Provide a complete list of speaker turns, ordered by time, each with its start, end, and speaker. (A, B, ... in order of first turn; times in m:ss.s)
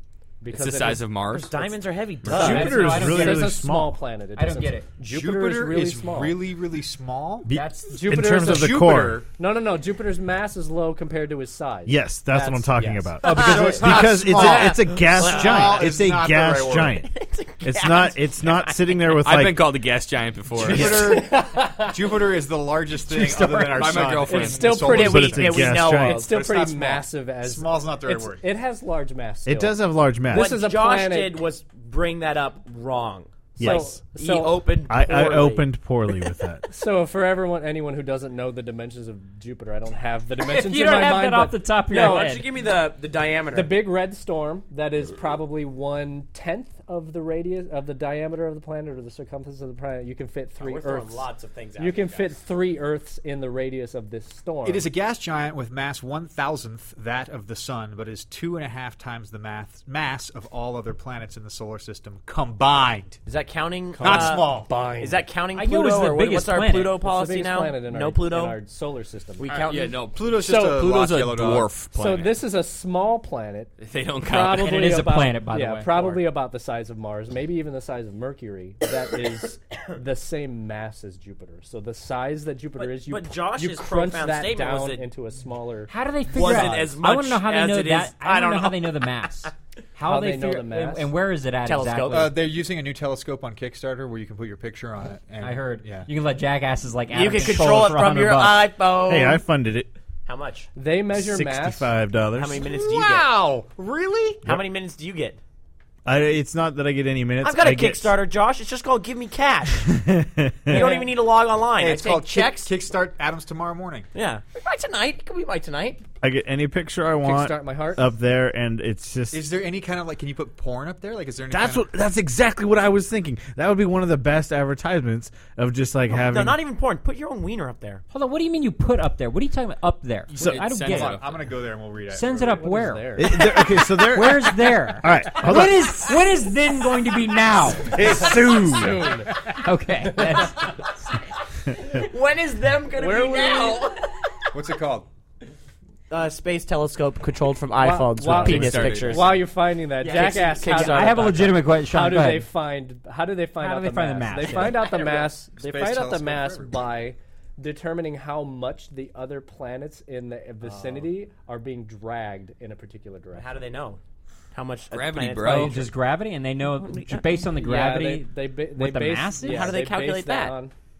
0:00.4-0:01.2 A
0:00.5-0:01.7 B
0:01.3-0:03.1 C
0:02.2-0:06.4 A
0:02.3-0:04.0 D
0:02.3-0:03.5 E
0:04.4-0:04.9 E
0:05.0-0:07.5 F
0:07.4-0:09.2 D
0:07.5-0:07.9 E
0:07.9-0:08.8 A
0:08.1-0:09.3 F
0:09.4-0:13.6 A
0:11.9-0:17.1 D
0:13.2-0:17.0 F
0:13.2-0:15.8 C
0:17.1-0:18.8 C
0:17.6-0:19.7 D
0:19.1-0:21.1 B
0:20.5-0:28.4 F
0:20.7-0:21.9 A
0:23.2-0:24.0 E
0:23.5-0:24.8 B
0:24.3-0:29.8 A
0:24.8-0:26.3 C
0:24.9-0:26.2 D
0:29.4-0:30.6 D
0:30.3-0:31.4 A
0:30.3-0:35.7 C
0:33.6-0:35.2 A
0:33.6-0:34.0 D
0:34.9-0:36.7 D
0:36.7-0:42.2 A
0:40.4-0:42.5 E
0:41.9-0:43.9 C
0:43.5-0:54.9 A
0:50.6-0:52.4 C
0:54.6-1:03.2 F
1:03.2-1:08.6 C
1:03.9-1:05.2 A
1:04.0-1:04.7 F
1:05.5-1:07.0 E
1:06.9-1:09.6 A
1:09.4-1:10.0 C
1:09.4-1:12.3 B
1:10.1-1:11.7 F
1:10.3-1:10.8 A
1:11.9-1:13.7 A
1:13.8-1:14.8 B
1:14.2-1:26.8 A
1:14.5-1:16.2 E
1:22.8-1:25.1 C
1:25.9-1:32.3 E
1:26.3-1:29.1 C
1:30.0-1:31.1 A
1:31.6-1:32.3 C
1:32.1-1:36.1 F
1:35.4-1:38.7 E
1:37.1-1:39.4 C
1:39.0-1:39.9 D
1:40.2-1:40.7 C
1:40.7-1:41.9 A
1:41.1-1:42.6 D
1:42.4-1:43.4 C
1:42.6-1:44.4 F
1:44.4-1:45.4 C
1:46.0-1:48.2 D
1:47.4-1:49.9 C
1:49.8-1:50.9 D
1:50.7-1:52.7 C
1:50.8-1:51.0 A
1:51.8-1:54.1 F
1:54.1-1:56.0 C
1:56.2-1:59.5 D
1:57.2-1:58.0 A
1:59.3-2:01.9 F
2:01.5-2:06.6 D
2:06.1-2:08.0 C
2:08.1-2:11.2 E
2:10.3-2:11.4 B
2:10.7-2:12.6 F
2:12.1-2:18.2 E
2:12.3-2:13.4 A
2:13.2-2:16.2 D
2:17.8-2:19.2 D
2:17.9-2:19.3 A
2:19.4-2:21.0 E
2:20.1-2:20.5 A
2:21.7-2:24.2 C
2:22.9-2:23.9 A
2:24.5-2:25.1 F
2:26.1-2:29.5 C
2:27.8-2:43.5 A
2:28.2-2:29.4 B
2:30.0-2:31.6 C
2:30.0-2:32.5 E
2:33.6-2:34.8 E
2:34.8-2:36.9 F
2:40.6-2:41.1 C
2:43.3-2:44.0 C
2:44.5-2:45.9 C
2:44.9-2:45.8 B
2:45.4-2:49.7 E
2:46.9-2:47.2 C
2:47.4-2:50.7 A
2:49.4-2:50.6 C